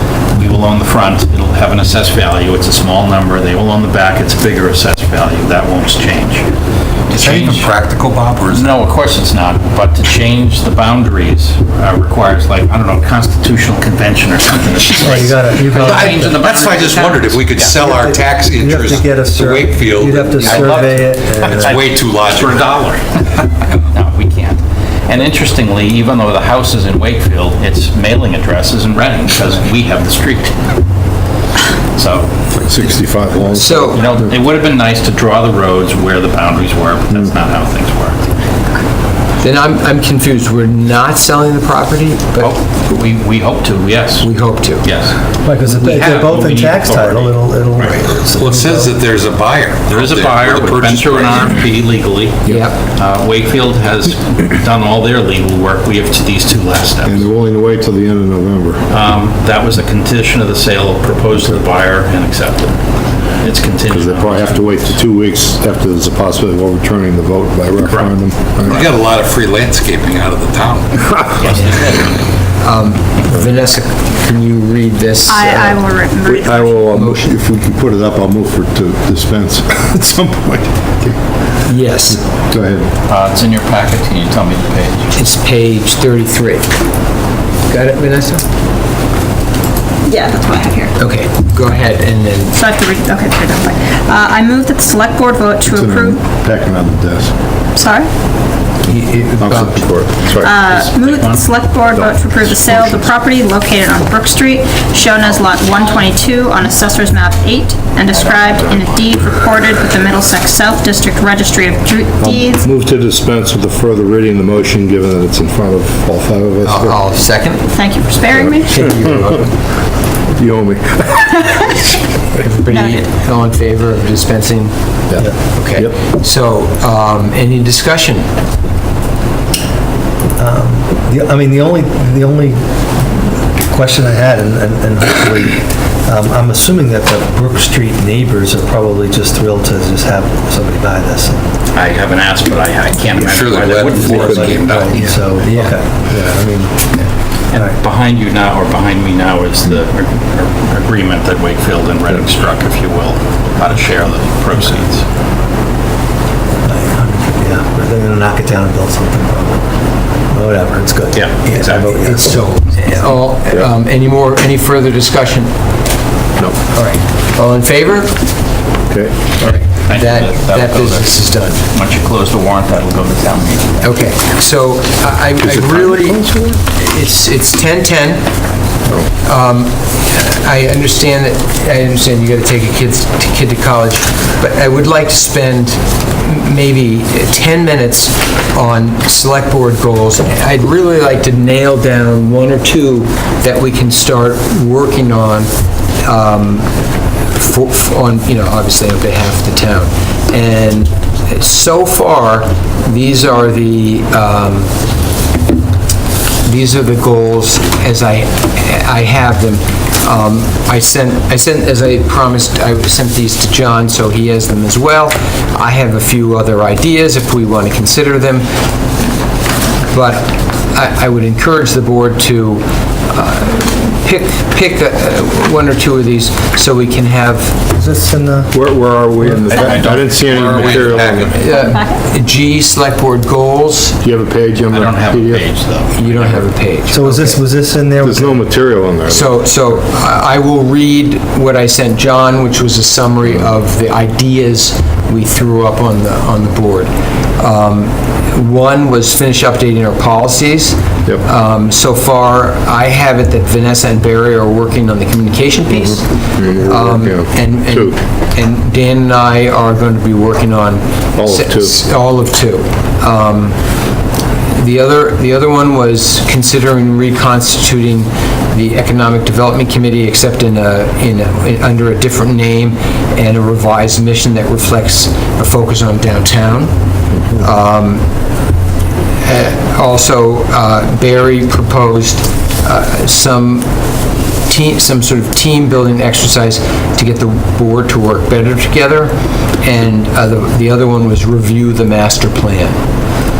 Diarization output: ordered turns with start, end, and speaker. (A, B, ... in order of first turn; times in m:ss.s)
0:00.3-0:06.5 A
0:07.1-0:07.9 A
0:07.1-0:08.7 B
0:08.5-0:17.8 A
0:15.0-0:16.4 C
0:15.7-0:22.9 B
0:17.8-0:21.8 C
0:20.4-0:20.9 A
0:21.5-0:23.2 A
0:23.9-0:30.5 A
0:32.0-0:32.9 A
0:32.5-0:34.2 D
0:33.5-0:34.0 E
0:33.9-0:38.3 A
0:39.4-0:42.6 E
0:42.4-0:44.3 A
0:44.2-0:44.9 E
0:44.8-0:47.3 A
0:45.4-0:49.0 C
0:47.8-0:51.6 B
0:49.8-0:57.3 A
0:52.5-0:52.8 E
0:57.0-0:58.8 D
0:58.9-1:02.8 A
1:03.4-1:04.9 A
1:03.9-1:09.0 D
1:08.6-1:11.8 B
1:11.4-1:12.2 A
1:12.6-1:15.8 E
1:15.3-1:16.9 F
1:16.2-1:21.2 D
1:16.9-1:17.3 E
1:21.6-1:22.2 E
1:21.9-1:22.9 D
1:23.1-1:25.1 A
1:25.2-1:26.7 E
1:27.7-1:28.4 E
1:30.1-1:31.0 F
1:31.0-1:32.6 E
1:32.5-1:36.2 F
1:35.6-1:37.3 D
1:37.8-1:38.1 F
1:38.8-1:39.9 E
1:38.9-1:40.5 D
1:40.4-1:52.7 F
1:40.5-1:41.5 A
1:41.9-1:43.1 D
1:48.2-1:48.8 A
1:52.2-1:57.0 D
1:56.6-1:57.7 E
1:57.7-1:58.8 F
1:58.7-1:59.6 E
2:00.4-2:01.5 D
2:02.3-2:08.3 E
2:02.7-2:03.0 F
2:05.1-2:06.0 D
2:10.4-2:21.4 C
2:21.7-2:25.1 A
2:23.1-2:25.4 B
2:24.0-2:24.6 D
2:24.1-2:26.9 C
2:25.4-2:25.8 E
2:27.5-2:35.0 A
2:36.6-2:39.6 C
2:40.3-2:42.6 C
2:41.1-2:42.4 A
2:42.5-2:45.5 E
2:46.7-2:48.2 E
2:48.9-2:49.3 D
2:49.4-2:51.6 E
2:49.4-2:53.9 A
2:53.8-2:58.3 E
2:55.4-2:56.6 D
2:59.2-3:15.5 E
3:16.0-3:16.7 E
3:17.3-3:24.7 E
3:26.4-3:38.5 E
3:39.9-3:47.6 E
3:47.8-3:48.5 C
3:48.5-3:51.3 D
3:49.2-3:49.8 C
3:49.5-3:51.4 A
3:50.3-3:51.3 B
3:51.3-3:52.0 F
3:51.3-3:54.0 E
3:54.0-3:55.5 D
3:54.7-3:56.5 A
3:55.9-3:57.4 E
3:56.9-3:58.5 C
3:58.0-3:59.3 D
3:59.1-4:23.6 E
4:15.9-4:18.0 D
4:21.2-4:21.8 D
4:24.5-4:36.7 E
4:37.3-4:38.0 E
4:39.2-4:43.7 E
4:44.5-4:52.8 E